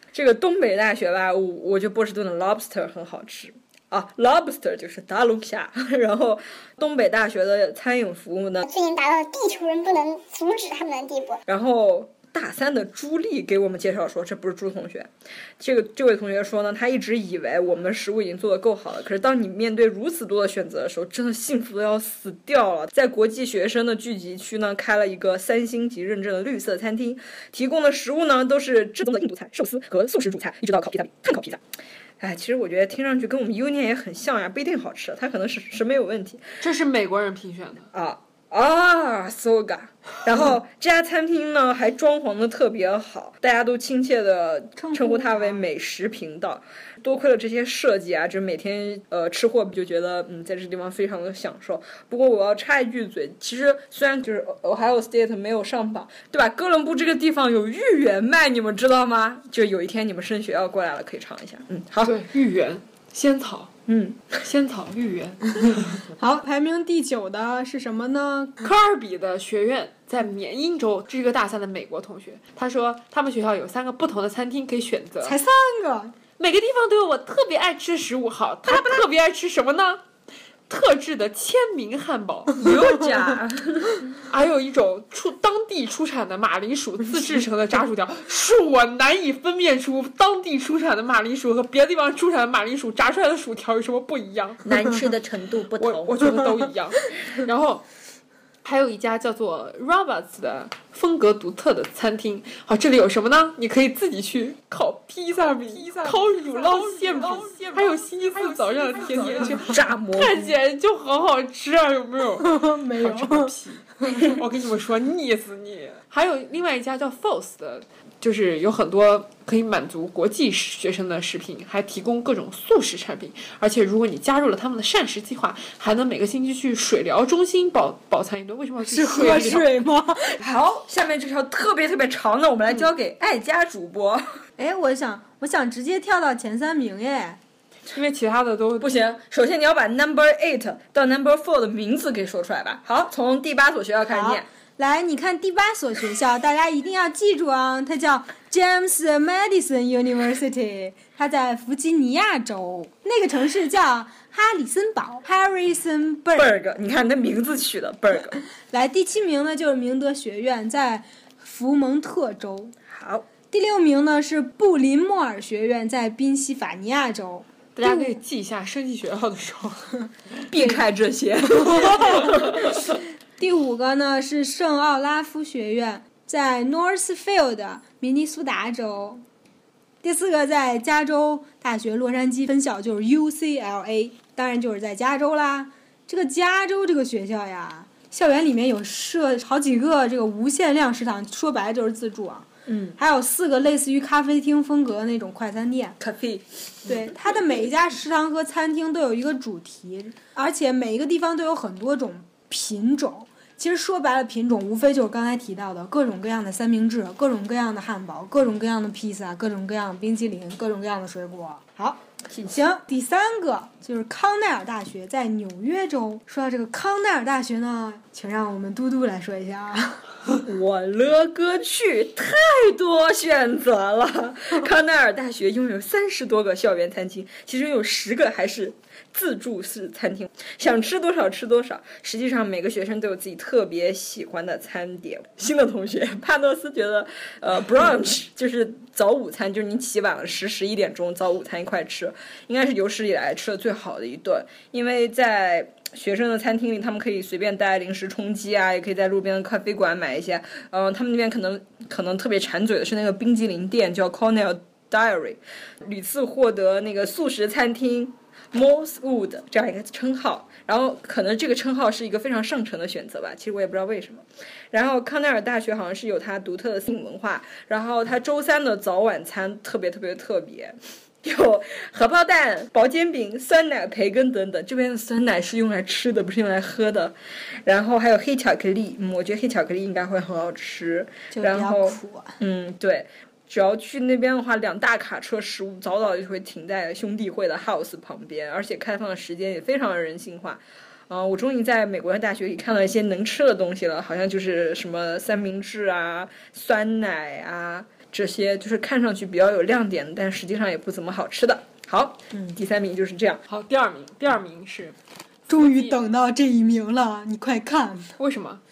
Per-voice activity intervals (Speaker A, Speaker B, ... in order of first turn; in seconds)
Speaker A: 0.1-8.7, 11.5-31.6, 32.2-36.6, 37.9-62.1, 63.9-64.3, 82.6-84.0, 94.6-96.5, 109.6-110.5, 130.4-134.2, 138.8-144.5, 156.3-158.4, 162.9-163.2, 170.5-172.9, 192.7-192.9, 196.0-196.9, 212.3-212.7, 220.4-303.4
Speaker B: 8.6-11.4
Speaker C: 36.6-37.9, 62.0-63.7, 64.4-66.0, 68.6-75.4, 76.4-80.0, 80.7-82.7, 84.2-94.7, 95.8-97.8, 98.6-129.8, 137.9-138.9, 167.8-169.9, 303.5-304.9, 305.5-305.9, 308.2-308.6
Speaker D: 44.8-45.6, 66.1-68.6, 75.2-76.1, 105.4-109.7, 112.4-113.5, 114.0-114.3, 128.8-130.4, 134.6-137.4, 144.1-156.6, 158.7-162.7, 163.5-168.2, 173.4-179.2, 180.0-196.0, 196.8-220.1, 281.3-282.4, 305.5-308.1